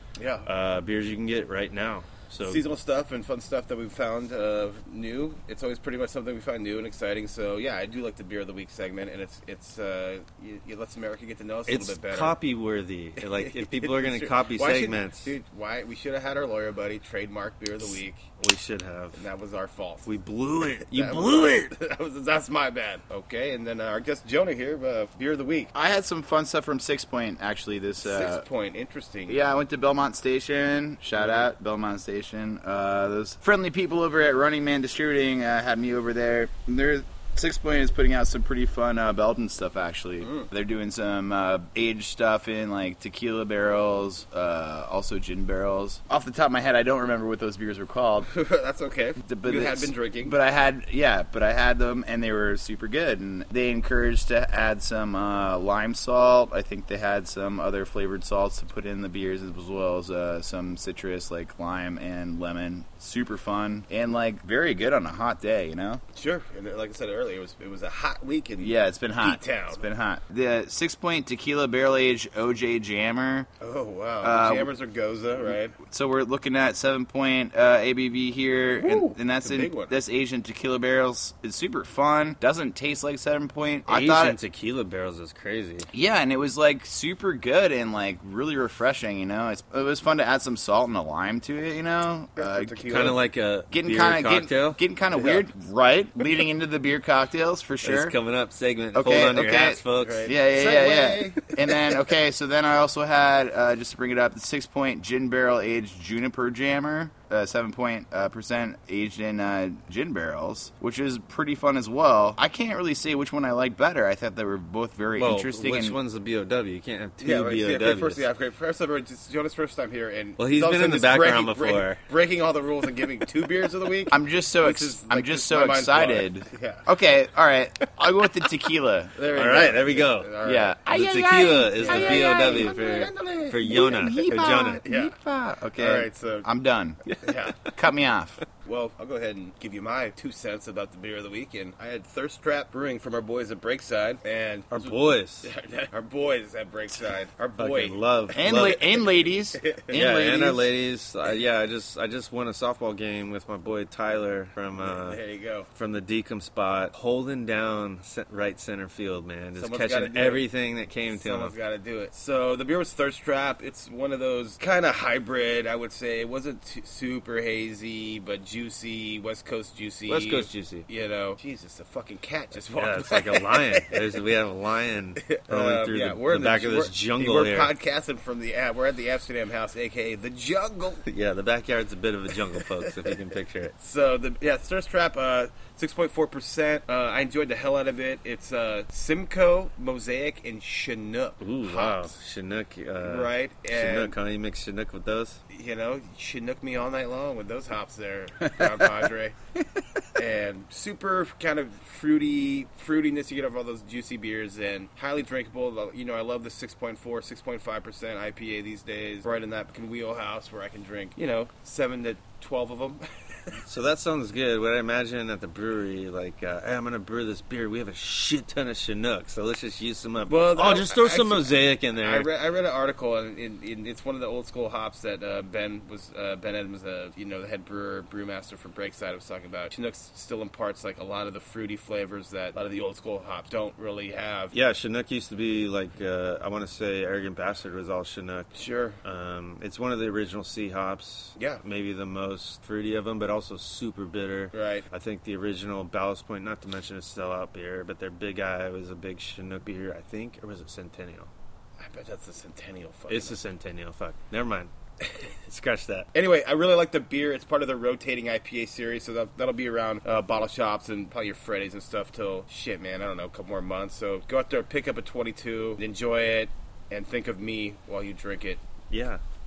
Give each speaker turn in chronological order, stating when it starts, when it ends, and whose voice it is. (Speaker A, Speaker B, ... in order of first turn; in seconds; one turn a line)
Speaker A: 0.2-0.5
Speaker B: 0.5-2.6
Speaker A: 2.4-12.4
Speaker B: 11.7-15.3
Speaker A: 13.2-18.2
Speaker B: 18.4-19.2
Speaker A: 19.1-20.1
Speaker B: 20.1-21.7
Speaker A: 20.9-25.7
Speaker C: 25.7-28.4
Speaker A: 28.0-29.5
Speaker C: 29.3-48.3
Speaker A: 40.2-40.5
Speaker A: 48.3-50.4
Speaker C: 49.2-66.0
Speaker A: 66.1-69.8
Speaker C: 68.6-73.5
Speaker A: 73.6-75.8
Speaker C: 74.2-74.7
Speaker C: 75.8-84.4
Speaker A: 78.8-80.0
Speaker B: 83.9-85.9
Speaker C: 85.9-93.2
Speaker A: 92.4-93.2
Speaker B: 92.9-94.8
Speaker C: 93.7-98.2
Speaker A: 95.1-95.5
Speaker B: 97.8-100.3
Speaker C: 99.0-116.0
Speaker A: 100.0-102.0
Speaker B: 115.2-118.2
Speaker A: 117.2-126.9
Speaker B: 120.4-122.0
Speaker C: 124.1-129.1
Speaker A: 129.2-130.8
Speaker B: 129.3-130.3
Speaker C: 130.4-132.8
Speaker B: 130.9-134.8
Speaker A: 131.8-134.3
Speaker C: 133.6-138.4
Speaker A: 134.8-135.2
Speaker A: 135.8-136.5
Speaker A: 137.2-137.7
Speaker A: 138.6-148.7
Speaker B: 144.7-145.5
Speaker B: 147.6-149.0
Speaker C: 148.3-150.7
Speaker A: 149.5-150.0
Speaker B: 149.9-155.2
Speaker A: 154.8-155.7
Speaker B: 155.7-161.5
Speaker A: 159.6-160.4
Speaker A: 161.1-174.0
Speaker B: 170.1-170.9
Speaker B: 172.8-177.7
Speaker A: 175.2-181.1
Speaker B: 181.1-183.8
Speaker A: 182.5-183.2
Speaker A: 183.8-192.1
Speaker B: 191.4-195.4
Speaker A: 193.0-194.2
Speaker A: 195.5-199.4
Speaker A: 200.2-213.6
Speaker B: 213.7-222.3
Speaker A: 220.3-234.5
Speaker B: 234.5-251.3
Speaker A: 238.5-239.0
Speaker A: 241.4-241.6
Speaker A: 244.5-244.9
Speaker A: 251.8-253.4
Speaker B: 253.1-254.7
Speaker B: 255.5-256.1
Speaker A: 256.1-268.6
Speaker B: 268.9-269.2